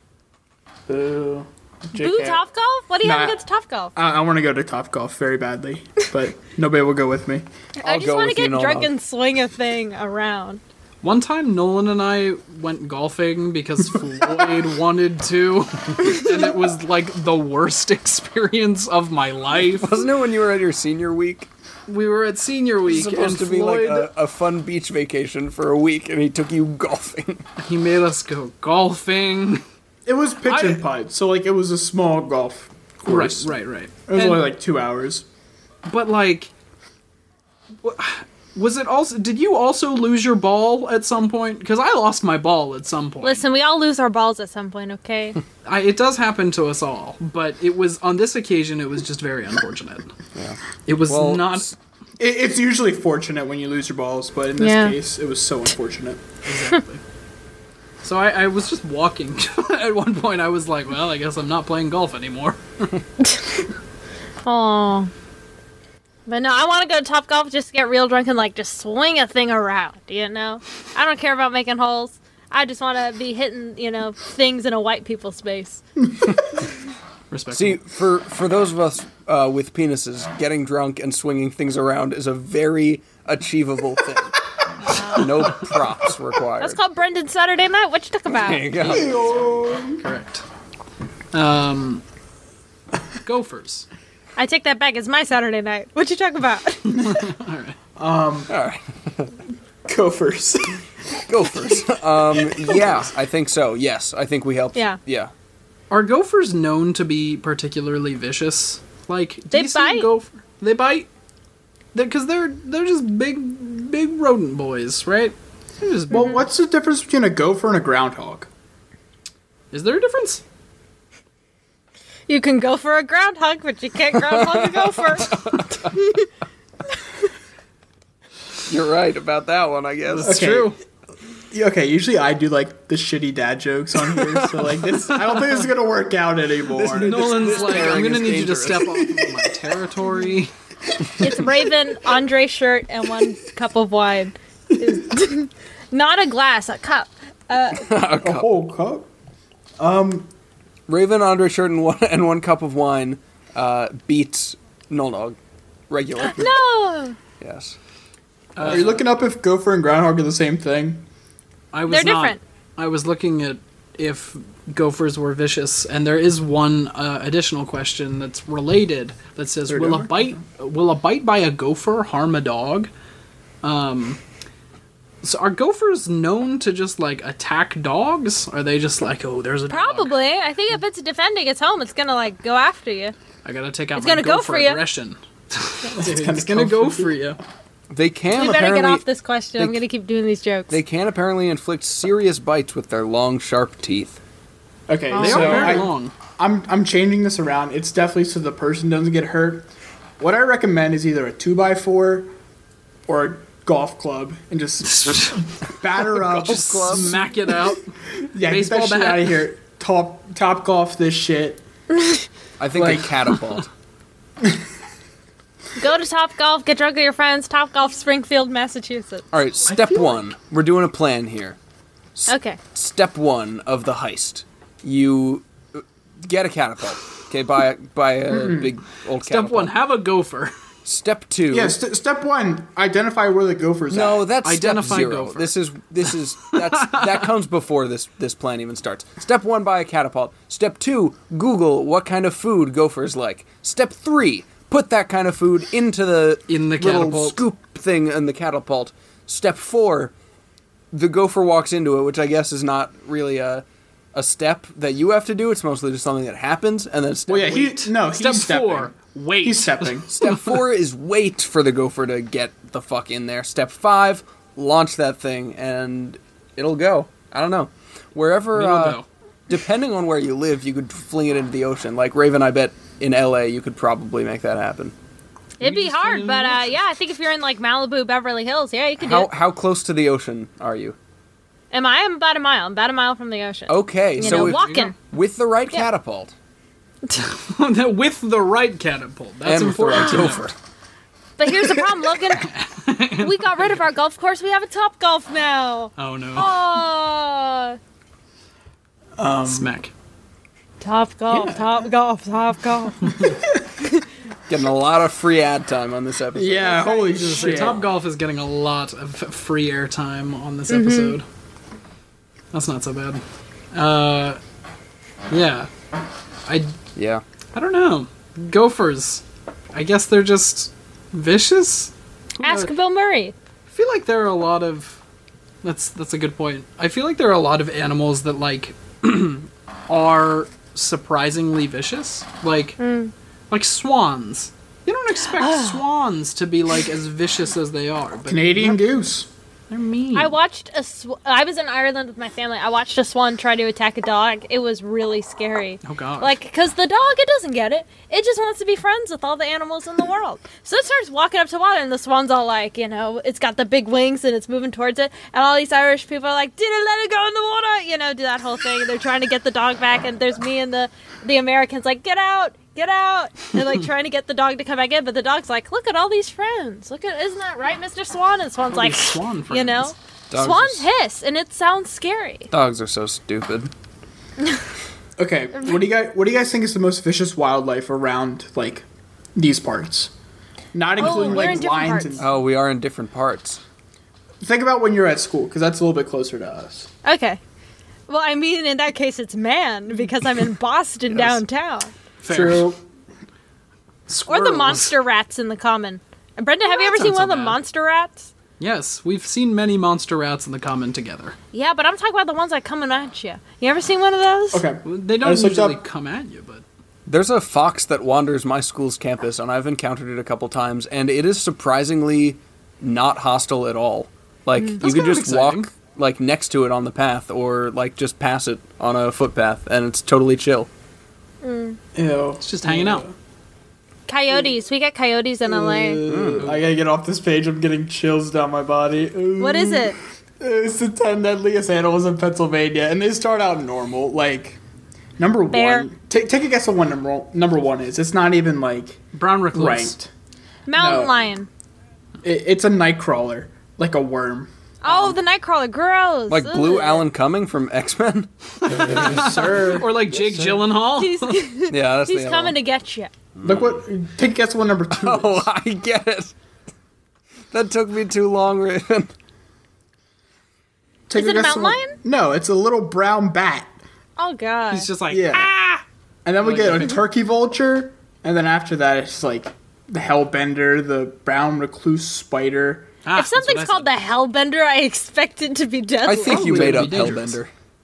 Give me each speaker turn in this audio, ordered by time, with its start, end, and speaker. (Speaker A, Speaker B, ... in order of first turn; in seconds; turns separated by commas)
Speaker A: 0.9-2.4, Speaker B: 2.0-3.9, Speaker A: 3.0-3.4, Speaker A: 4.0-7.5, Speaker B: 7.8-10.6, Speaker C: 7.8-8.9, Speaker D: 11.0-19.9, Speaker C: 19.6-21.5, Speaker D: 21.9-24.1, Speaker C: 22.9-27.4, Speaker D: 27.6-29.6, Speaker A: 30.1-33.5, Speaker D: 30.4-30.8, Speaker D: 33.1-34.4, Speaker A: 34.1-35.2, Speaker D: 35.9-36.5, Speaker D: 37.8-43.4, Speaker B: 43.2-45.4, Speaker D: 45.6-50.1, Speaker C: 50.4-51.8, Speaker D: 50.9-51.7, Speaker A: 52.2-56.2, Speaker B: 54.6-55.0, Speaker D: 56.5-57.0, Speaker D: 58.0-62.9, Speaker B: 64.5-65.1, Speaker B: 66.3-75.8, Speaker D: 77.3-77.8, Speaker C: 77.5-84.3, Speaker B: 84.8-85.6, Speaker C: 85.1-86.8, Speaker B: 86.6-88.7, Speaker C: 88.3-89.2, Speaker D: 88.8-89.3, Speaker A: 88.8-90.0, Speaker D: 90.0-90.4, Speaker D: 91.3-92.0, Speaker D: 93.2-93.9, Speaker B: 94.4-97.2, Speaker D: 96.9-97.8, Speaker A: 98.0-98.5, Speaker C: 98.5-99.3, Speaker A: 99.9-100.8, Speaker C: 101.3-105.3, Speaker A: 102.4-103.0, Speaker D: 105.9-111.1, Speaker B: 109.5-110.1, Speaker D: 111.9-116.4, Speaker A: 116.1-118.5, Speaker B: 116.1-116.4, Speaker D: 119.7-120.4, Speaker B: 122.3-125.4, Speaker C: 124.1-126.0, Speaker B: 125.9-126.2, Speaker C: 128.7-130.4, Speaker D: 130.1-130.8, Speaker A: 130.2-130.7, Speaker A: 131.5-138.1, Speaker C: 136.7-139.0, Speaker D: 136.9-140.5, Speaker A: 138.8-139.4, Speaker B: 141.2-147.9, Speaker C: 147.7-148.6, Speaker A: 148.2-149.1, Speaker A: 149.8-150.3, Speaker C: 150.9-155.4, Speaker C: 155.9-156.6, Speaker B: 156.3-157.2, Speaker C: 157.4-157.8, Speaker D: 158.6-159.1, Speaker A: 158.6-161.1, Speaker D: 161.7-172.9, Speaker B: 161.9-162.4, Speaker A: 169.7-170.4, Speaker D: 173.6-174.2, Speaker D: 175.2-180.1, Speaker B: 179.7-183.2, Speaker D: 183.4-187.4, Speaker B: 184.0-184.8, Speaker A: 185.9-187.2, Speaker C: 187.9-189.1, Speaker B: 188.3-190.8, Speaker C: 190.7-194.2, Speaker A: 194.9-199.7, Speaker B: 195.1-195.9, Speaker D: 195.2-196.1, Speaker A: 200.2-202.3, Speaker A: 203.1-207.3, Speaker D: 204.9-205.4, Speaker C: 206.0-207.2, Speaker D: 206.4-207.9, Speaker A: 208.3-211.6, Speaker D: 208.4-209.4, Speaker C: 212.6-213.7, Speaker A: 212.7-213.2, Speaker B: 215.8-219.2, Speaker C: 219.3-221.6, Speaker D: 219.7-220.2, Speaker C: 222.2-229.8, Speaker B: 222.3-222.6, Speaker A: 228.3-228.7, Speaker D: 229.2-230.5, Speaker C: 230.8-231.8, Speaker A: 231.5-234.3, Speaker C: 233.9-250.1, Speaker D: 234.4-235.6, Speaker D: 236.7-237.2, Speaker D: 246.5-247.4, Speaker C: 250.9-257.8, Speaker A: 257.3-260.1, Speaker D: 257.6-260.6, Speaker C: 260.1-274.9, Speaker D: 268.6-269.1, Speaker D: 275.6-276.8, Speaker B: 275.6-279.3, Speaker C: 279.0-281.0, Speaker B: 281.7-284.9, Speaker C: 283.7-286.3, Speaker D: 284.2-284.9, Speaker D: 287.2-290.4, Speaker C: 289.4-290.5, Speaker B: 289.9-290.3, Speaker B: 291.4-292.5, Speaker D: 292.4-293.8, Speaker B: 293.2-297.8, Speaker D: 296.0-296.5, Speaker A: 299.2-299.7, Speaker D: 299.4-299.9, Speaker B: 300.8-303.3, Speaker A: 301.3-301.8, Speaker A: 303.2-303.7, Speaker C: 304.5-307.0, Speaker A: 306.4-307.8, Speaker B: 306.8-307.6, Speaker D: 307.1-311.2, Speaker B: 310.7-311.2, Speaker D: 312.5-314.4, Speaker D: 315.3-315.7, Speaker D: 316.5-316.8, Speaker C: 317.0-317.2, Speaker D: 317.5-322.7, Speaker B: 322.4-323.4, Speaker D: 323.7-325.0, Speaker D: 325.6-332.8, Speaker B: 332.8-333.1, Speaker D: 333.5-338.9, Speaker B: 335.4-335.8, Speaker A: 338.3-339.3, Speaker D: 339.7-340.3, Speaker B: 340.1-372.5, Speaker D: 345.8-346.3, Speaker D: 368.7-369.9, Speaker C: 370.3-370.9, Speaker C: 372.5-373.7, Speaker A: 375.2-378.9, Speaker A: 379.4-380.1, Speaker A: 380.7-382.3, Speaker B: 381.0-382.2, Speaker C: 382.2-383.6, Speaker A: 384.4-386.9, Speaker B: 387.0-387.4, Speaker B: 388.1-391.9, Speaker C: 391.1-391.4, Speaker D: 392.2-392.7, Speaker A: 392.3-392.8, Speaker D: 394.1-394.9, Speaker B: 394.3-398.3, Speaker D: 396.6-397.6, Speaker D: 398.6-401.4, Speaker B: 401.5-404.6, Speaker A: 404.5-405.8, Speaker D: 404.8-406.6, Speaker C: 407.1-420.7, Speaker D: 414.8-415.7, Speaker B: 421.4-421.8, Speaker A: 421.9-423.1, Speaker D: 422.4-423.1, Speaker B: 424.1-426.0, Speaker A: 425.4-434.6, Speaker C: 426.1-426.5, Speaker B: 429.4-430.0, Speaker A: 435.2-440.1, Speaker B: 435.5-435.9, Speaker D: 439.1-440.0, Speaker B: 440.7-441.5, Speaker A: 440.7-441.3, Speaker A: 442.2-444.5, Speaker B: 444.8-447.1, Speaker D: 444.9-445.2, Speaker C: 446.3-448.3, Speaker D: 448.6-451.4, Speaker A: 448.7-450.6, Speaker B: 451.0-453.1, Speaker C: 451.7-452.6, Speaker C: 453.4-453.8, Speaker A: 453.4-455.5, Speaker C: 454.9-456.3, Speaker C: 457.5-459.1, Speaker A: 461.1-463.7, Speaker B: 461.1-462.0, Speaker B: 464.2-464.9, Speaker D: 464.7-465.8, Speaker A: 465.1-465.5, Speaker A: 466.2-472.9, Speaker D: 466.4-467.0, Speaker D: 473.0-473.9, Speaker B: 473.1-476.6, Speaker C: 476.0-477.5, Speaker D: 476.2-477.4